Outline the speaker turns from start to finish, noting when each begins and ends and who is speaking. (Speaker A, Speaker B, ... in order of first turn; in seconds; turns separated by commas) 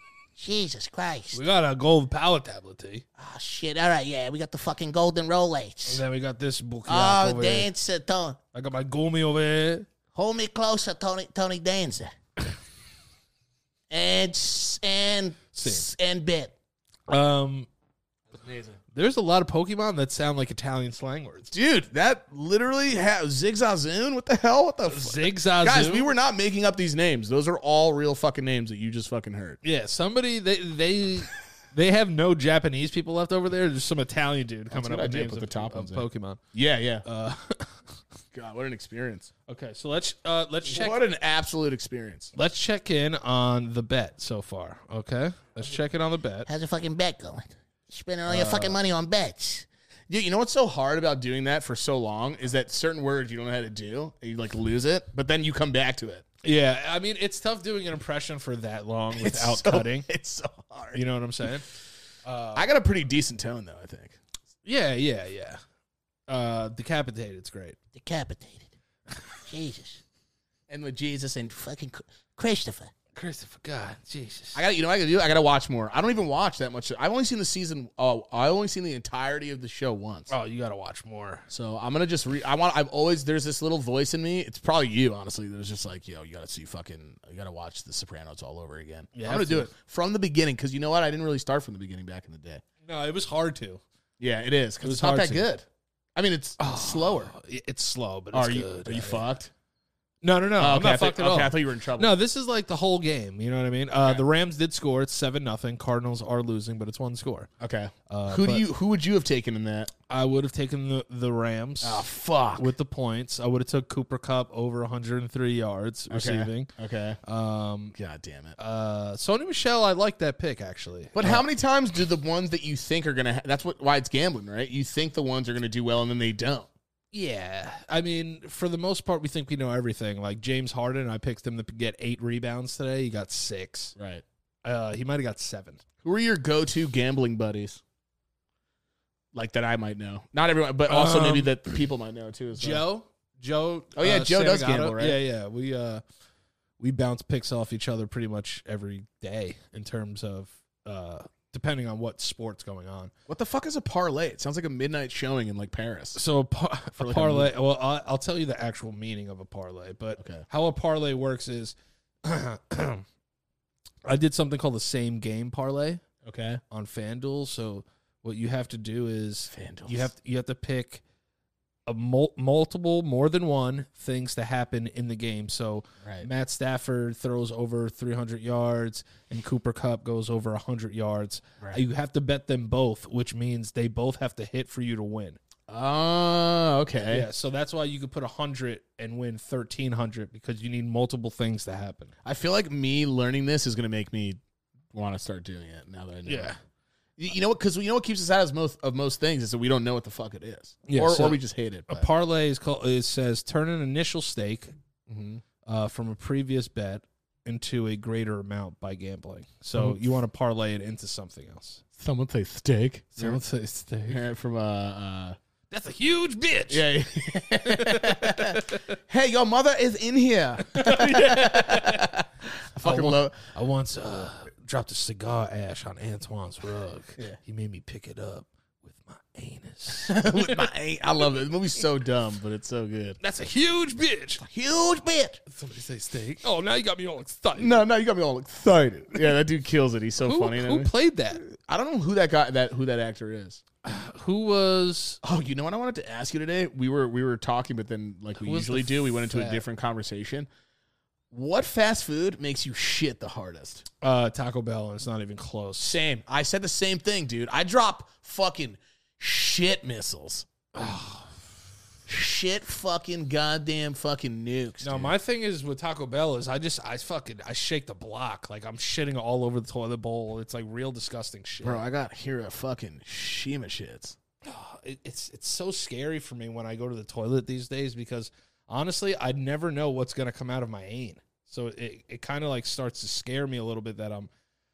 Speaker A: 0.4-1.4, Speaker B: 1.3-3.0, Speaker A: 3.2-6.0, Speaker B: 5.9-7.7, Speaker A: 6.9-8.4, Speaker B: 8.5-9.9, Speaker A: 10.1-12.1, Speaker A: 13.9-16.5, Speaker B: 15.5-15.9, Speaker B: 17.1-17.7, Speaker C: 18.3-18.8, Speaker B: 18.9-21.5, Speaker C: 21.5-29.6, Speaker B: 24.9-26.1, Speaker B: 29.6-36.4, Speaker C: 34.7-37.0, Speaker B: 37.0-37.8, Speaker C: 38.3-39.3, Speaker B: 39.5-41.0, Speaker C: 40.6-42.3, Speaker B: 42.3-46.5, Speaker A: 46.5-49.6, Speaker B: 48.3-48.8, Speaker C: 50.1-56.2, Speaker B: 56.4-60.1, Speaker C: 59.1-61.0, Speaker B: 60.9-61.7, Speaker B: 62.2-62.7, Speaker C: 62.5-64.2, Speaker B: 64.6-65.6, Speaker B: 66.3-67.8, Speaker A: 67.9-68.7, Speaker A: 69.5-70.0, Speaker C: 70.7-71.6, Speaker A: 71.6-72.9, Speaker B: 73.1-74.6, Speaker C: 74.5-80.3, Speaker B: 80.3-81.5, Speaker C: 81.5-92.6, Speaker B: 89.1-89.7, Speaker B: 92.8-93.8, Speaker C: 94.2-97.3, Speaker B: 94.8-95.5, Speaker B: 96.6-99.2, Speaker C: 98.3-99.5, Speaker B: 100.2-107.5, Speaker C: 100.6-102.1, Speaker C: 107.6-109.9, Speaker B: 108.1-108.6, Speaker B: 110.1-116.7, Speaker C: 111.8-112.7, Speaker C: 116.1-117.2, Speaker B: 117.2-118.0, Speaker C: 118.0-118.5, Speaker B: 118.6-121.4, Speaker C: 121.1-126.7, Speaker B: 127.1-133.9, Speaker C: 134.0-134.2, Speaker B: 134.6-135.8, Speaker C: 136.0-137.8, Speaker C: 139.3-142.8, Speaker B: 140.9-141.5, Speaker B: 142.5-146.0, Speaker C: 143.9-145.2, Speaker B: 146.8-153.1, Speaker C: 153.3-156.2, Speaker B: 156.1-163.0, Speaker C: 157.0-157.5, Speaker C: 160.2-160.4, Speaker B: 164.1-166.0, Speaker C: 166.2-166.6, Speaker B: 166.7-171.0, Speaker C: 169.5-170.1, Speaker B: 171.8-185.4, Speaker C: 185.7-187.3, Speaker B: 187.1-192.1, Speaker C: 192.2-194.4, Speaker C: 194.9-196.5, Speaker B: 196.3-196.6, Speaker C: 197.2-202.1, Speaker B: 200.9-204.7, Speaker C: 205.1-205.4, Speaker B: 205.7-211.8, Speaker C: 212.0-213.4, Speaker B: 213.2-214.2, Speaker C: 214.1-215.4, Speaker B: 215.7-216.8, Speaker C: 216.7-223.3, Speaker B: 217.7-218.8, Speaker B: 220.7-222.1, Speaker B: 222.8-230.5, Speaker C: 230.0-233.2, Speaker B: 233.2-234.4, Speaker A: 234.4-235.4, Speaker B: 235.5-237.8, Speaker C: 237.6-243.6, Speaker B: 240.2-241.4, Speaker B: 243.8-245.2, Speaker C: 245.2-250.5, Speaker B: 248.3-249.6, Speaker C: 251.3-253.8, Speaker B: 254.0-256.0, Speaker C: 255.8-260.5, Speaker B: 260.7-261.4, Speaker A: 262.1-264.7, Speaker C: 264.6-265.1, Speaker B: 264.8-271.8, Speaker C: 271.6-274.1, Speaker B: 274.4-284.3